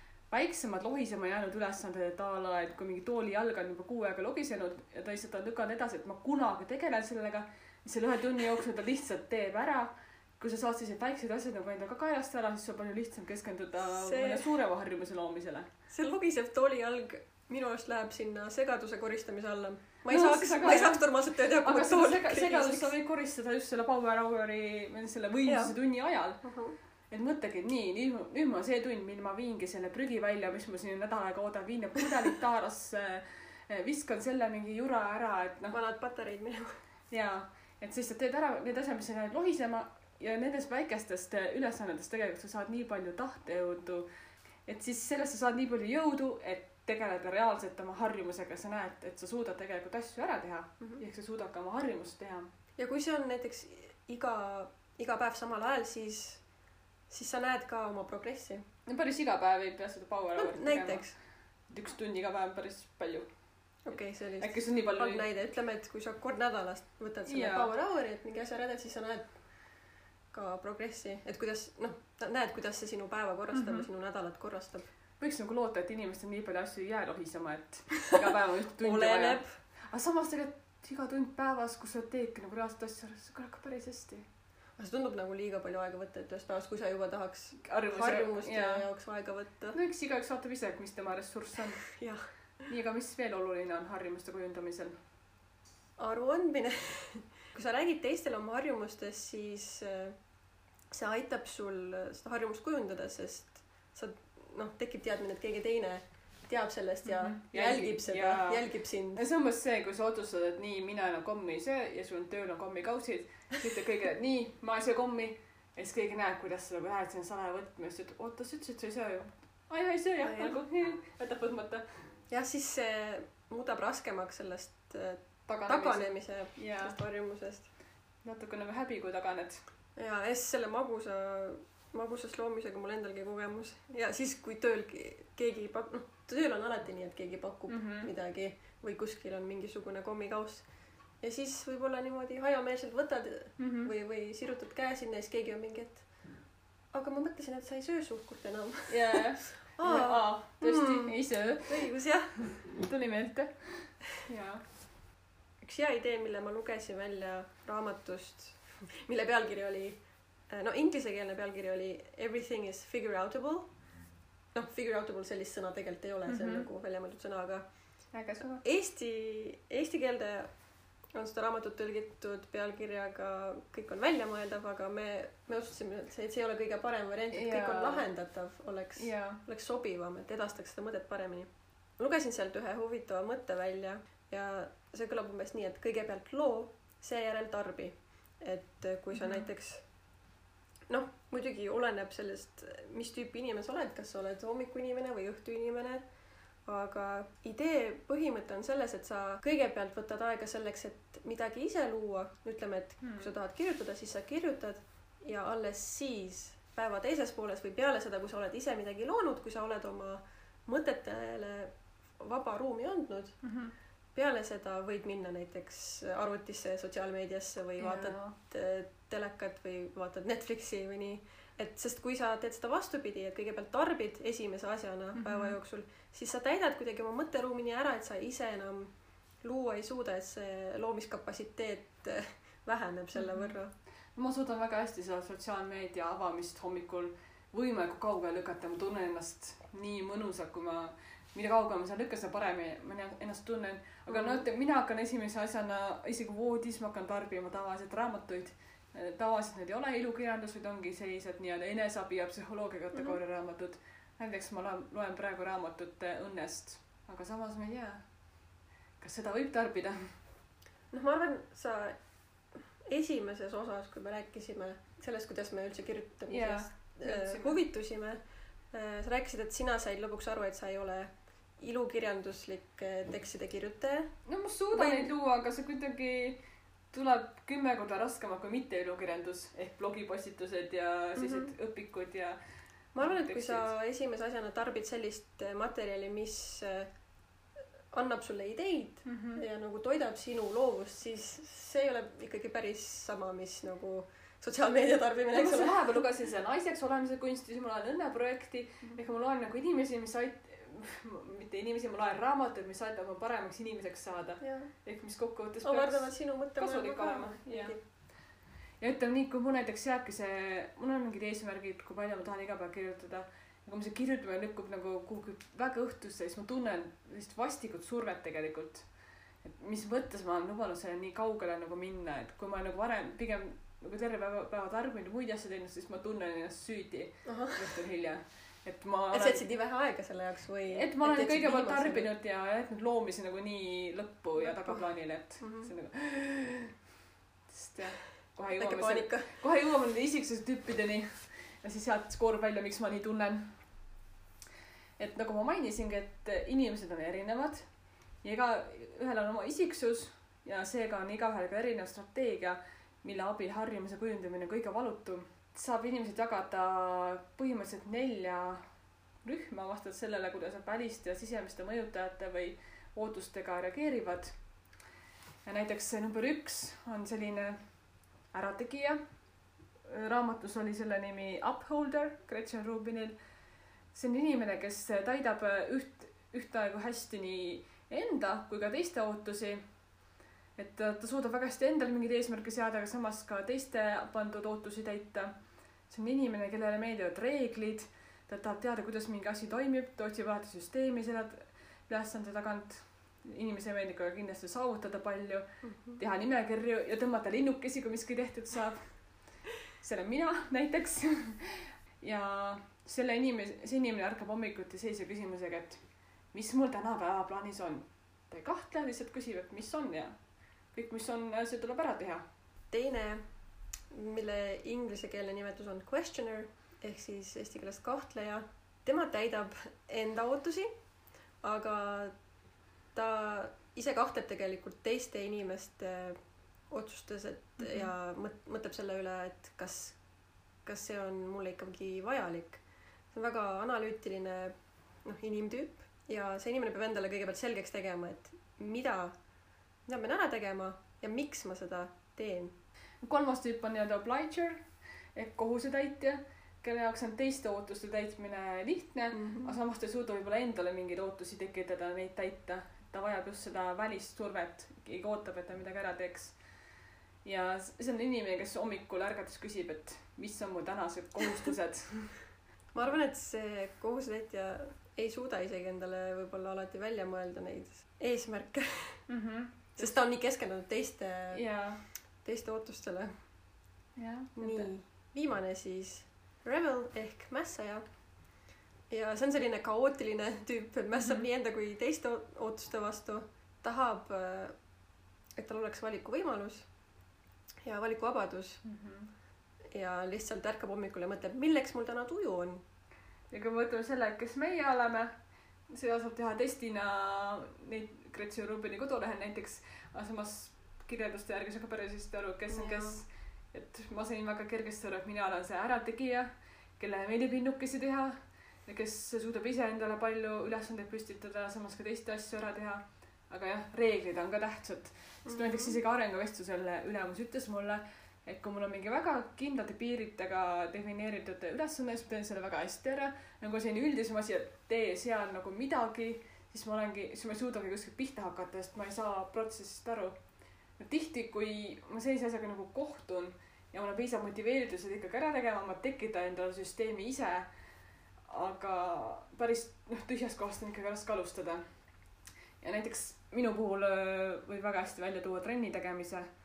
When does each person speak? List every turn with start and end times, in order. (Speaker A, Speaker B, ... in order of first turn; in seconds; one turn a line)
Speaker A: 0.3-15.7
Speaker B: 13.8-14.5
Speaker B: 15.9-22.9
Speaker A: 20.1-26.4
Speaker B: 25.5-25.7
Speaker B: 26.4-26.8
Speaker A: 27.1-35.8
Speaker B: 35.7-36.8
Speaker A: 37.1-44.1
Speaker A: 44.7-52.5
Speaker B: 52.8-56.4
Speaker B: 57.1-58.6
Speaker A: 58.9-61.1
Speaker B: 60.4-61.1
Speaker A: 61.7-63.3
Speaker B: 63.9-69.3
Speaker A: 64.4-65.3
Speaker A: 67.2-67.7
Speaker B: 70.3-74.9
Speaker A: 73.5-73.9
Speaker A: 75.2-84.3
Speaker B: 78.8-79.6
Speaker B: 84.8-89.8
Speaker A: 87.6-88.8
Speaker A: 89.7-91.9
Speaker B: 91.8-92.3
Speaker A: 92.7-95.0
Speaker B: 96.0-100.2
Speaker B: 100.9-109.2
Speaker A: 107.0-121.9
Speaker B: 120.2-120.6
Speaker B: 122.3-127.7
Speaker A: 125.5-127.0
Speaker A: 128.2-129.6
Speaker B: 130.0-140.7
Speaker A: 137.7-138.1
Speaker B: 141.2-146.1
Speaker A: 143.6-143.9
Speaker B: 146.9-152.6
Speaker A: 148.9-151.9
Speaker A: 152.5-154.6
Speaker B: 155.6-163.7
Speaker B: 164.5-167.7
Speaker A: 166.3-166.7
Speaker A: 168.1-168.6
Speaker B: 168.6-170.5
Speaker B: 171.1-189.8
Speaker A: 177.3-178.1
Speaker A: 179.0-179.4
Speaker A: 189.1-189.5
Speaker B: 190.9-196.0
Speaker B: 196.7-213.4
Speaker A: 203.0-203.3
Speaker A: 213.4-213.7
Speaker B: 214.2-233.7
Speaker A: 217.8-218.4
Speaker A: 225.1-225.6
Speaker A: 233.2-233.6
Speaker A: 234.2-258.0
Speaker B: 244.1-244.4
Speaker A: 259.0-260.1
Speaker B: 260.9-262.0
Speaker B: 262.5-268.2
Speaker A: 266.3-267.6
Speaker B: 268.7-274.1
Speaker A: 274.3-276.4
Speaker B: 274.7-275.1
Speaker A: 276.9-282.4
Speaker B: 281.2-281.5
Speaker B: 282.9-286.9
Speaker A: 283.0-283.7
Speaker B: 287.9-296.0
Speaker A: 289.1-289.4
Speaker A: 295.3-307.8
Speaker B: 304.4-304.7
Speaker B: 305.6-307.8
Speaker A: 308.8-318.9
Speaker A: 319.4-329.4
Speaker B: 327.2-327.8
Speaker B: 329.1-332.1
Speaker A: 330.7-336.7
Speaker B: 334.4-334.8
Speaker B: 335.4-335.7
Speaker A: 337.5-343.6
Speaker B: 338.6-339.3
Speaker A: 345.0-347.7
Speaker A: 348.2-358.6
Speaker A: 359.2-364.4
Speaker A: 365.4-367.6
Speaker A: 368.3-369.0
Speaker A: 369.9-373.1
Speaker A: 373.9-379.6
Speaker A: 380.6-385.3
Speaker A: 385.9-395.4
Speaker B: 395.6-396.0
Speaker A: 396.0-399.0
Speaker A: 399.7-405.8
Speaker A: 406.3-410.1
Speaker A: 410.7-412.2
Speaker B: 412.7-413.2
Speaker B: 413.9-420.7
Speaker B: 421.4-422.1
Speaker B: 422.9-426.2
Speaker B: 426.7-430.0
Speaker A: 427.6-427.9
Speaker B: 430.6-439.2
Speaker B: 439.9-442.6
Speaker A: 443.0-444.6
Speaker A: 445.1-456.4
Speaker B: 449.1-449.6
Speaker A: 457.2-462.2
Speaker B: 462.7-469.1
Speaker A: 469.1-469.9
Speaker B: 469.8-471.4
Speaker A: 471.3-471.8
Speaker B: 472.2-473.1
Speaker A: 474.0-474.7
Speaker B: 474.4-477.9
Speaker B: 478.9-484.6
Speaker A: 481.0-481.3
Speaker B: 485.4-486.7
Speaker B: 487.6-488.6
Speaker A: 488.6-489.1
Speaker B: 489.7-492.6
Speaker A: 493.3-495.1
Speaker A: 495.7-530.2
Speaker B: 502.5-503.0
Speaker B: 515.2-515.8
Speaker A: 530.8-537.5
Speaker A: 538.3-541.6
Speaker A: 542.6-546.3